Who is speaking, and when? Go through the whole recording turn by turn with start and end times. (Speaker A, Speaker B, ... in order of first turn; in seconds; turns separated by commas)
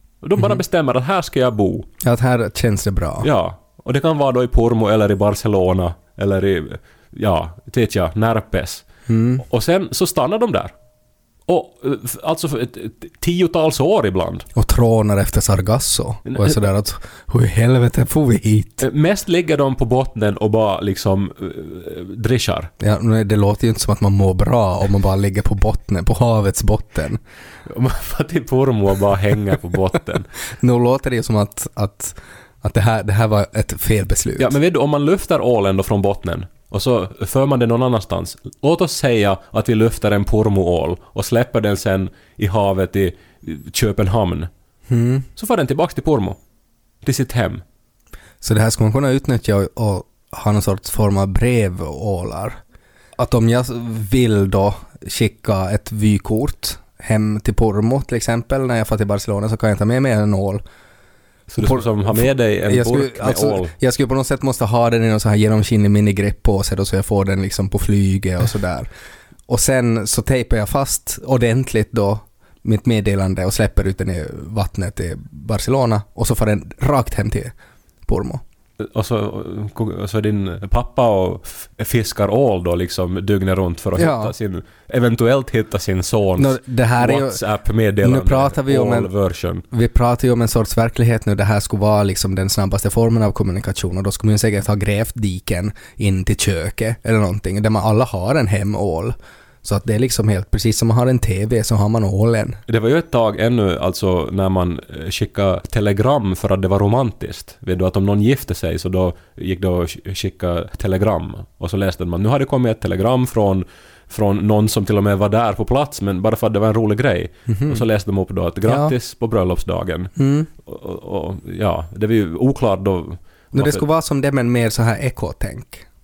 Speaker A: 0.2-1.9, Speaker B: 2.0-3.3, Speaker A: 3.2-8.9, Speaker B: 9.1-9.4, Speaker A: 9.4-10.7, Speaker A: 11.5-14.5, Speaker B: 14.6-18.8, Speaker A: 16.3-16.6, Speaker A: 18.8-22.7, Speaker B: 22.8-27.2, Speaker A: 27.7-30.3, Speaker B: 30.6-34.5, Speaker A: 34.4-44.5, Speaker B: 44.9-45.3, Speaker A: 45.4-46.4, Speaker A: 47.0-47.6, Speaker B: 48.4-52.6, Speaker B: 53.2-60.6, Speaker A: 61.5-63.7, Speaker B: 61.6-68.9, Speaker B: 69.5-77.5, Speaker B: 78.1-78.4, Speaker A: 78.8-89.7, Speaker B: 84.0-84.3, Speaker B: 86.4-87.4, Speaker B: 88.0-89.1, Speaker B: 89.7-102.6, Speaker A: 102.7-123.8, Speaker B: 117.5-117.8, Speaker B: 118.7-118.9, Speaker B: 120.2-120.5, Speaker B: 123.5-125.9